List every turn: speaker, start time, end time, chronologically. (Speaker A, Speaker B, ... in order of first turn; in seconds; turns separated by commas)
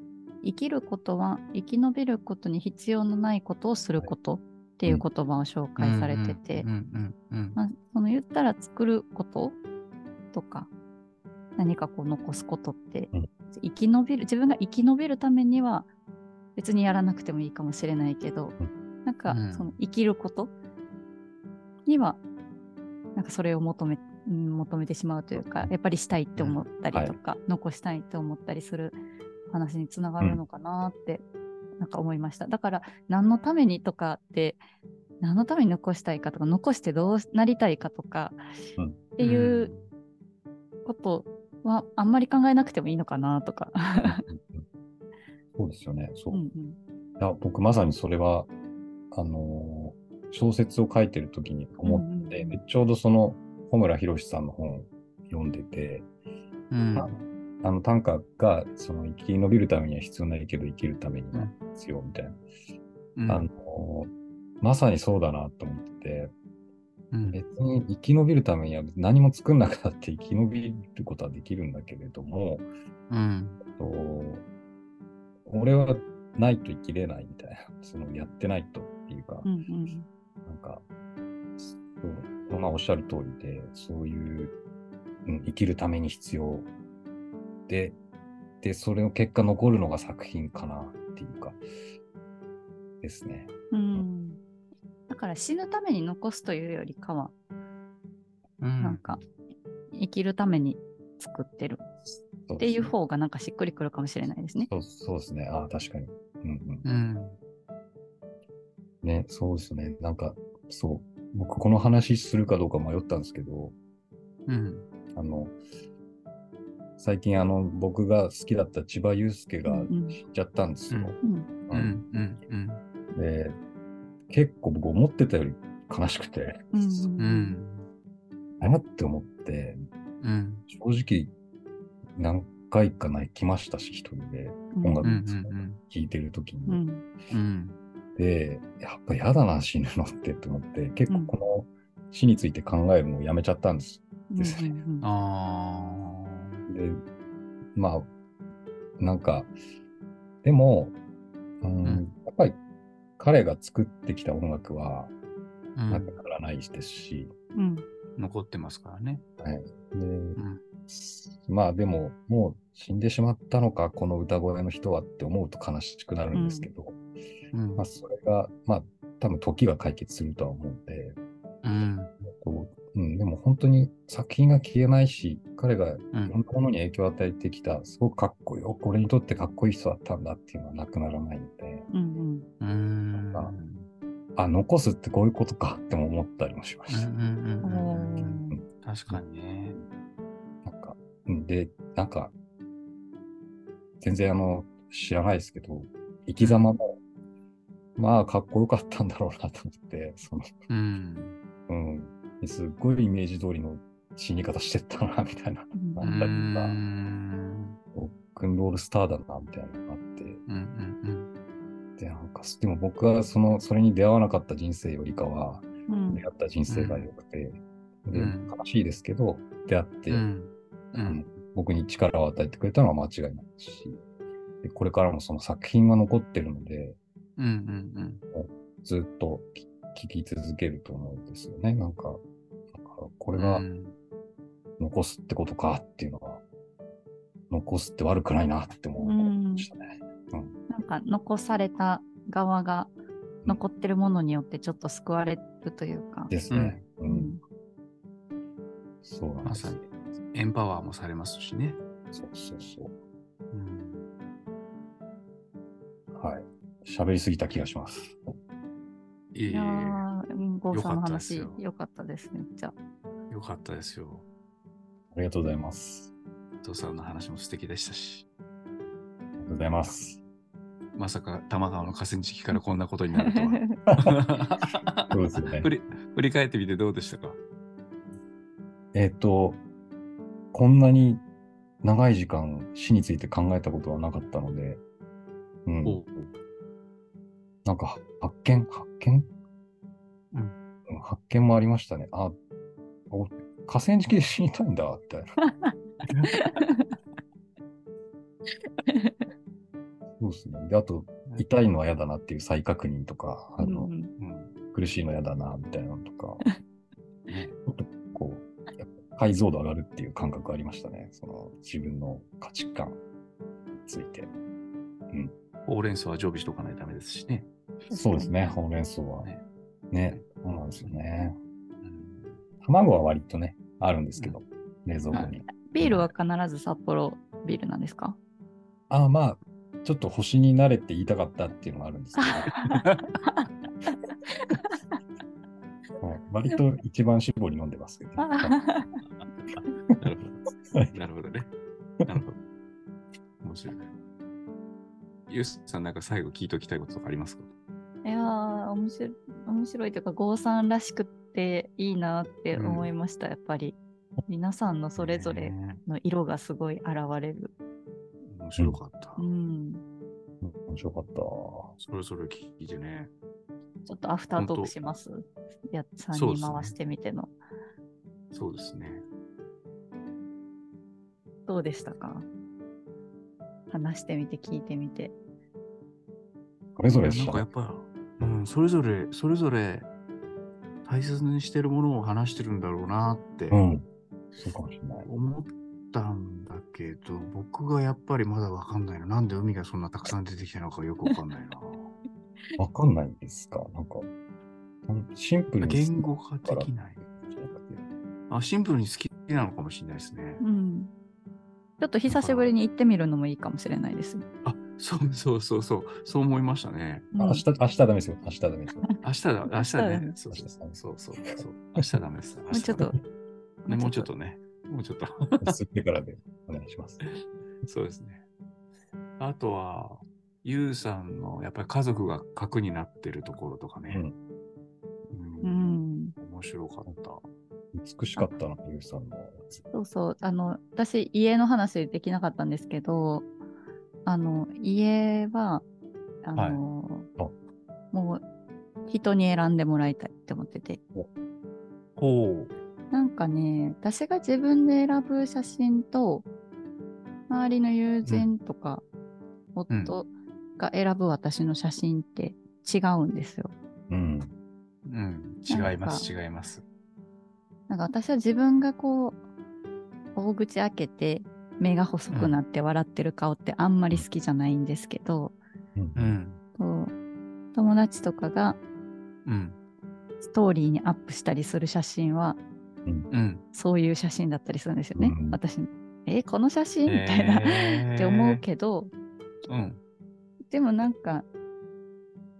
Speaker A: 0.4-6.7, Speaker B: 5.8-7.6, Speaker A: 7.5-9.6, Speaker A: 10.3-10.7, Speaker A: 11.6-15.9, Speaker A: 16.6-20.5, Speaker B: 19.3-19.8, Speaker A: 21.9-22.2, Speaker A: 23.1-29.0, Speaker C: 25.4-25.7, Speaker A: 29.5-31.2, Speaker A: 31.8-34.6, Speaker A: 35.2-39.7, Speaker B: 39.2-39.9, Speaker A: 40.8-44.2, Speaker C: 44.0-44.6, Speaker C: 45.5-46.4, Speaker A: 46.3-46.8, Speaker C: 47.2-48.5, Speaker C: 49.1-56.1, Speaker A: 51.8-52.6, Speaker B: 56.7-57.1, Speaker C: 57.0-62.4, Speaker B: 63.1-63.5, Speaker C: 63.3-64.1, Speaker C: 64.6-66.3, Speaker B: 67.1-67.4, Speaker C: 67.2-72.7, Speaker B: 73.1-73.6, Speaker C: 73.7-74.4, Speaker C: 75.5-79.5, Speaker A: 79.4-80.1, Speaker C: 80.5-80.8, Speaker C: 81.6-84.5, Speaker C: 85.2-86.7, Speaker C: 87.7-88.0, Speaker C: 88.6-91.6, Speaker C: 93.0-94.0, Speaker A: 93.7-94.4, Speaker A: 95.1-97.3, Speaker B: 98.6-99.2, Speaker A: 98.8-99.2, Speaker A: 99.9-101.8, Speaker C: 102.5-102.9, Speaker A: 102.6-104.7, Speaker C: 104.6-106.8, Speaker B: 106.8-107.4, Speaker C: 109.0-113.7, Speaker B: 114.5-114.9, Speaker C: 115.1-115.5, Speaker C: 117.0-122.0, Speaker A: 119.7-120.2, Speaker B: 120.9-121.2, Speaker A: 121.2-121.5, Speaker B: 121.7-122.8, Speaker C: 123.1-123.6, Speaker C: 124.3-126.8, Speaker A: 126.7-127.6, Speaker B: 127.2-127.9, Speaker C: 128.6-129.8, Speaker B: 130.2-130.7, Speaker C: 130.7-131.3, Speaker C: 132.2-136.8, Speaker A: 134.7-135.1, Speaker B: 135.0-135.8, Speaker A: 136.7-137.0, Speaker B: 137.3-137.8, Speaker C: 138.2-144.7, Speaker A: 141.1-141.3, Speaker A: 144.3-145.1, Speaker B: 145.0-146.6, Speaker C: 146.7-147.0, Speaker C: 147.7-148.1, Speaker C: 149.0-149.5, Speaker C: 150.4-150.9, Speaker C: 151.6-152.6, Speaker C: 153.2-155.1, Speaker B: 155.8-156.2, Speaker C: 155.9-157.3, Speaker A: 157.5-157.8, Speaker B: 158.2-159.2, Speaker C: 159.4-167.0, Speaker B: 160.3-160.6, Speaker A: 166.3-166.7, Speaker B: 167.5-167.8, Speaker C: 167.8-171.2, Speaker B: 171.6-172.1, Speaker C: 172.2-181.9, Speaker A: 181.9-182.4, Speaker B: 182.6-183.9, Speaker C: 183.1-183.5, Speaker C: 184.3-187.1, Speaker B: 186.9-189.8, Speaker A: 187.6-188.6, Speaker C: 190.6-192.3, Speaker C: 194.0-196.9, Speaker B: 196.4-196.7, Speaker C: 198.0-200.5, Speaker B: 200.7-201.3, Speaker C: 201.7-206.8, Speaker A: 205.7-206.3, Speaker B: 206.0-207.8, Speaker C: 207.9-210.4, Speaker B: 210.5-211.3, Speaker C: 212.0-220.3, Speaker A: 215.9-216.2, Speaker B: 216.7-217.1, Speaker B: 218.1-218.5, Speaker B: 220.1-221.3, Speaker C: 220.9-224.0, Speaker C: 224.6-227.0, Speaker B: 227.4-228.2, Speaker C: 228.3-232.2, Speaker C: 232.7-233.7, Speaker B: 233.3-233.9, Speaker C: 234.8-236.4, Speaker C: 237.5-240.6, Speaker A: 239.0-239.7, Speaker A: 240.7-242.9, Speaker A: 243.4-246.3, Speaker C: 246.3-247.3, Speaker B: 246.5-246.8, Speaker A: 247.1-247.4, Speaker C: 249.0-249.8, Speaker B: 249.4-251.8, Speaker C: 252.1-252.9, Speaker B: 253.5-254.0, Speaker C: 256.1-258.2, Speaker B: 259.3-260.0, Speaker A: 259.5-262.7, Speaker B: 260.7-261.6, Speaker B: 263.3-264.2, Speaker C: 265.1-266.1, Speaker B: 266.6-268.2, Speaker C: 269.4-270.2, Speaker B: 270.9-277.4, Speaker A: 273.2-273.8, Speaker C: 275.1-275.7, Speaker C: 278.9-279.6, Speaker C: 280.5-281.2, Speaker C: 281.8-284.8, Speaker C: 285.6-286.0, Speaker B: 285.8-286.3, Speaker C: 287.6-289.3, Speaker C: 290.9-292.4, Speaker C: 293.1-295.3, Speaker A: 295.4-295.7, Speaker B: 296.1-296.4, Speaker A: 296.3-296.9, Speaker A: 298.8-299.2, Speaker C: 300.2-303.9, Speaker A: 303.6-304.1, Speaker B: 304.1-304.5, Speaker C: 304.7-306.4, Speaker B: 307.3-307.5, Speaker C: 307.6-313.0, Speaker C: 313.8-314.3, Speaker B: 315.6-317.5, Speaker A: 317.9-318.3, Speaker C: 317.9-319.3, Speaker C: 319.9-321.4, Speaker B: 321.8-322.4, Speaker C: 322.6-326.1, Speaker A: 325.6-328.2, Speaker C: 328.9-332.5, Speaker A: 332.2-333.9, Speaker B: 332.7-333.1, Speaker C: 336.0-338.5, Speaker A: 338.2-339.0, Speaker B: 340.0-341.5, Speaker B: 342.1-342.4, Speaker B: 343.4-343.9, Speaker B: 345.3-347.5, Speaker A: 348.0-357.5, Speaker B: 352.5-352.9, Speaker B: 355.0-355.8, Speaker B: 358.2-359.2, Speaker A: 359.2-359.8, Speaker C: 360.4-361.7, Speaker B: 361.8-363.1, Speaker A: 363.9-367.3, Speaker B: 364.4-364.9, Speaker B: 366.1-366.7, Speaker B: 368.3-369.0, Speaker A: 371.5-372.2, Speaker A: 373.7-375.1, Speaker C: 376.8-377.4, Speaker B: 376.9-379.9, Speaker B: 380.8-383.6, Speaker C: 383.5-383.9, Speaker C: 384.4-385.1, Speaker B: 385.0-391.9, Speaker C: 392.6-394.1, Speaker C: 394.9-397.8, Speaker B: 395.6-397.0, Speaker B: 398.3-400.4, Speaker A: 400.4-400.9, Speaker A: 401.8-404.2, Speaker B: 402.1-402.5, Speaker B: 404.4-407.1, Speaker A: 407.1-407.4, Speaker C: 407.2-408.8, Speaker B: 409.0-413.0, Speaker A: 409.5-410.1, Speaker C: 410.3-410.8, Speaker C: 411.4-411.8, Speaker A: 412.5-413.0, Speaker A: 413.6-414.1, Speaker B: 413.7-415.5, Speaker C: 415.4-417.0, Speaker B: 417.1-418.2, Speaker B: 419.2-424.0, Speaker B: 425.1-427.2, Speaker A: 425.4-426.1, Speaker C: 427.7-429.6, Speaker A: 429.7-433.3, Speaker A: 434.0-435.6, Speaker A: 436.2-437.1, Speaker A: 437.9-438.2, Speaker A: 438.9-440.8, Speaker B: 442.0-442.5, Speaker A: 442.9-446.2, Speaker A: 447.3-448.8, Speaker B: 448.0-448.3, Speaker A: 449.5-453.5, Speaker B: 449.7-449.9, Speaker C: 453.9-454.3, Speaker B: 454.8-456.6, Speaker A: 455.5-456.1, Speaker A: 457.7-459.2, Speaker A: 460.1-465.4, Speaker B: 462.1-462.4, Speaker C: 465.8-466.2, Speaker B: 465.9-466.4, Speaker A: 466.6-466.9, Speaker A: 467.5-468.6, Speaker B: 469.2-469.6, Speaker A: 470.2-472.4, Speaker B: 473.1-473.4, Speaker A: 473.5-478.9, Speaker C: 474.9-475.4, Speaker B: 476.9-478.4, Speaker B: 479.5-479.8, Speaker A: 480.5-481.2